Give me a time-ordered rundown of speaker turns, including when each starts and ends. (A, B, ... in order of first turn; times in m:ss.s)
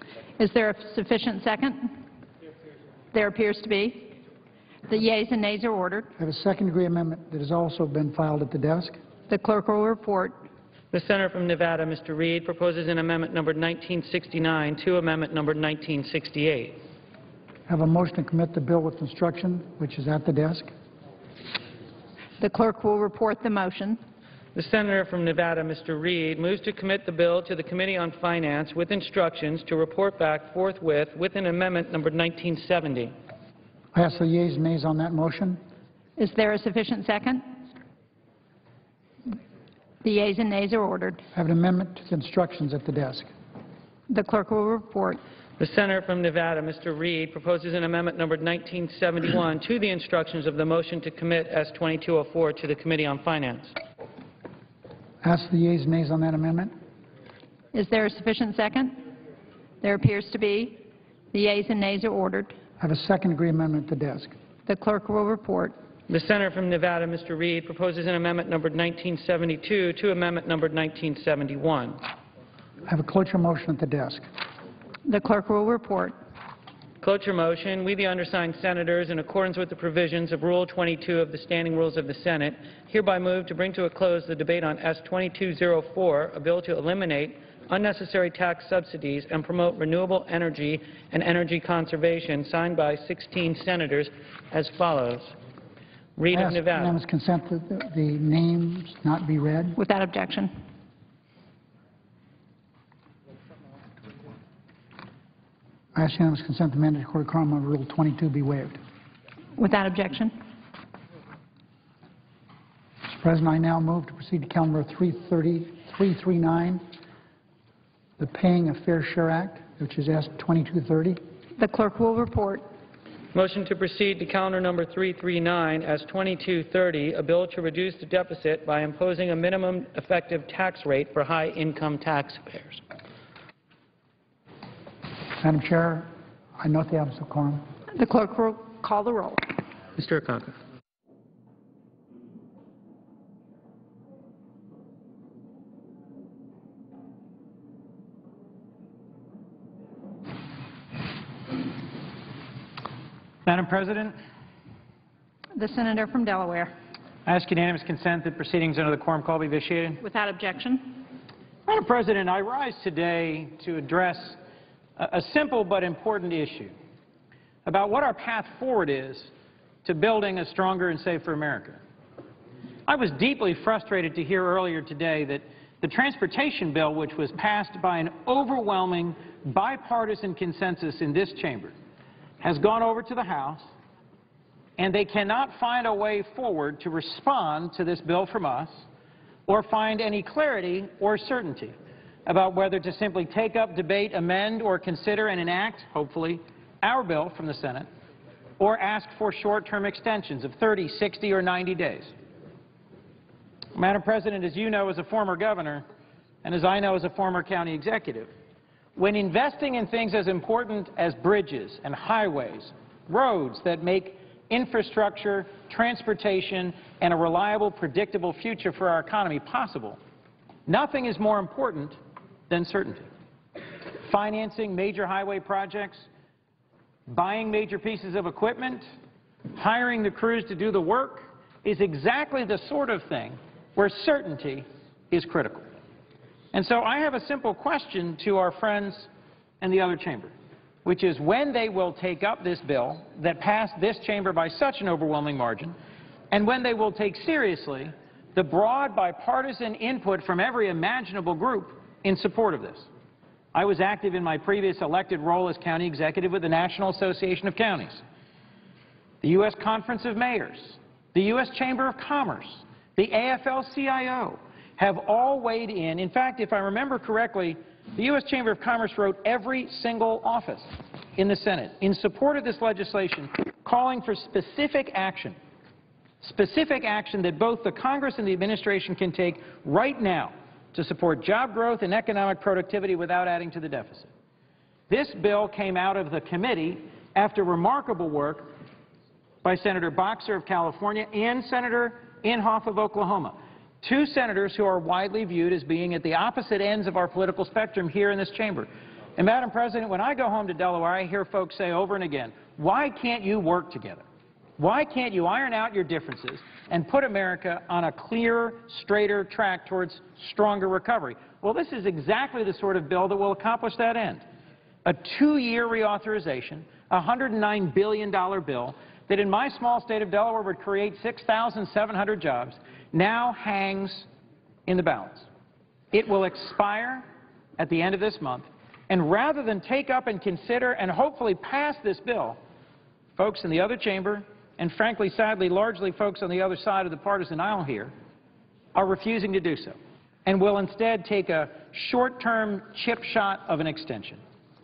0:00.4-0:02.0 A
0:03.1-0:04.2 A
0:04.9-0:06.1 A
0:06.2-0:09.0 B
0:09.3-0:10.4 A
0:10.9-0:16.8 C
0:17.7-0:20.7 B
0:22.4-0:24.0 A
0:24.5-0:33.1 C
0:33.9-0:35.6 B
0:36.2-0:37.5 A
0:40.0-0:41.2 A
0:41.3-0:43.3 B
0:44.1-0:45.2 A
0:45.6-0:53.7 C
0:55.2-0:56.7 B
0:57.7-0:59.0 A
0:59.8-1:02.6 A
1:02.8-1:04.3 B
1:04.6-1:05.8 A
1:06.1-1:12.0 C
1:12.8-1:14.3 B
1:15.0-1:16.2 A
1:17.0-1:35.4 C
1:36.2-1:36.9 C
1:36.3-1:39.8 B
1:39.8-1:40.6 A
1:45.9-1:48.8 B
1:49.6-1:50.4 A
1:53.1-1:56.8 B
1:58.2-2:01.2 B
2:01.6-2:02.7 A
2:03.3-2:12.8 C
2:15.4-2:17.6 B
2:17.9-2:19.5 A
2:20.0-2:20.5 C
2:33.4-2:34.2 D
2:35.6-2:36.7 A
2:37.2-2:40.0 D
2:40.0-2:41.0 A
2:41.7-2:44.4 D
2:45.0-2:46.7 D
2:47.6-2:49.3 D
2:49.8-2:51.8 D
2:52.9-3:01.7 D
3:02.4-3:03.7 D
3:04.8-3:08.8 D
3:09.5-3:17.9 D
3:18.6-3:22.1 D
3:23.7-3:25.8 D
3:26.4-3:28.3 D
3:29.0-3:40.0 D
3:40.7-3:43.1 D
3:44.0-3:46.1 D
3:47.1-3:48.9 D
3:49.5-3:55.7 D
3:56.5-3:59.1 D
3:59.6-4:00.3 D
4:00.8-4:05.8 D
4:06.3-4:12.9 D
4:13.5-4:18.0 D
4:19.2-4:35.4 D
4:36.2-4:44.1 D
4:44.9-4:48.5 D
4:49.4-5:04.0 D
5:04.6-5:14.2 D
5:14.8-5:24.1 D
5:24.7-5:25.3 D
5:25.9-5:27.0 D
5:27.6-5:32.4 D
5:33.2-5:37.9 D
5:38.7-5:44.2 D